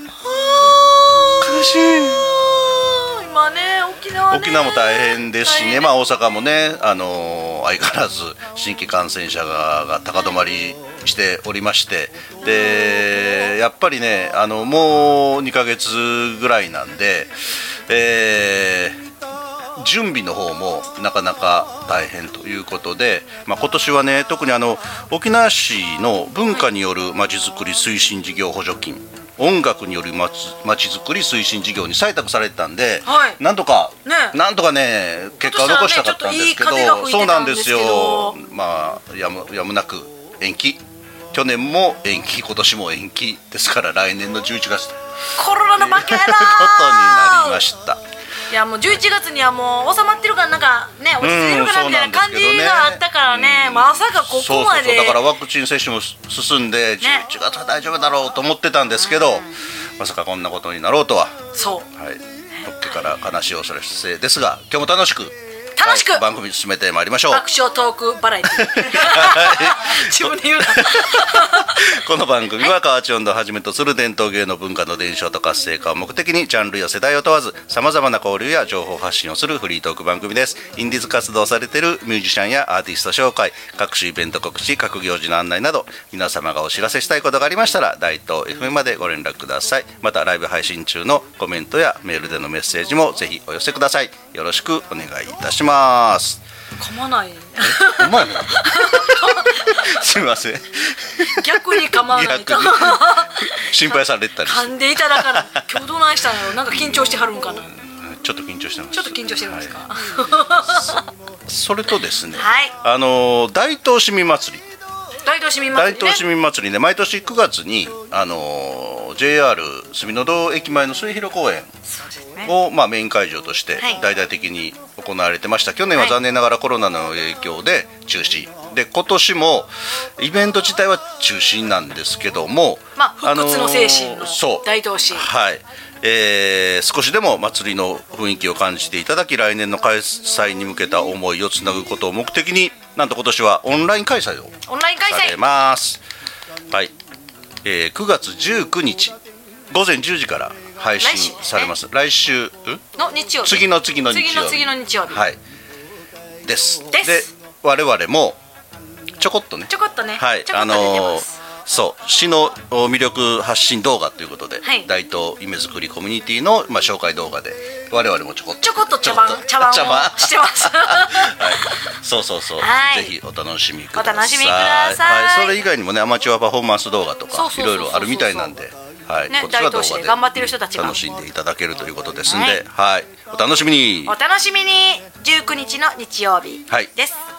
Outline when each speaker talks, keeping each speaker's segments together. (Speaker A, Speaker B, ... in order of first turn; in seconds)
Speaker A: 0.2-5.9, 12.4-13.0, 33.0-33.4, 34.0-34.4, 35.4-38.4, 45.4-47.6, 48.5-55.2, 59.0-59.5, 61.5-61.9, 65.8-66.2, 67.3-71.8, 96.8-100.0, 101.2-103.7, 104.4-107.7, 108.9-111.0, 112.3-112.8, 115.2-116.2, 121.9-122.5, 132.9-135.3, 144.7-145.4, 151.0-151.7, 152.9-155.2, 156.9-157.3, 159.7-161.4, 164.6-164.9, 168.6-171.8, 172.6-173.1, 173.9-175.6, 177.3-178.5, 179.3-181.0, 182.2-182.6, 184.0-187.2
Speaker B: 1.4-2.3, 4.3-17.3, 17.9-19.0, 19.7-45.0, 45.8-48.0, 51.2-61.4, 61.9-67.5, 68.6-96.4, 97.6-105.6, 106.7-109.8, 110.7-114.6, 115.7-121.7, 122.4-144.5, 145.1-146.0, 147.6-149.2, 149.7-152.8, 153.4-155.4, 156.4-158.4, 159.2-184.2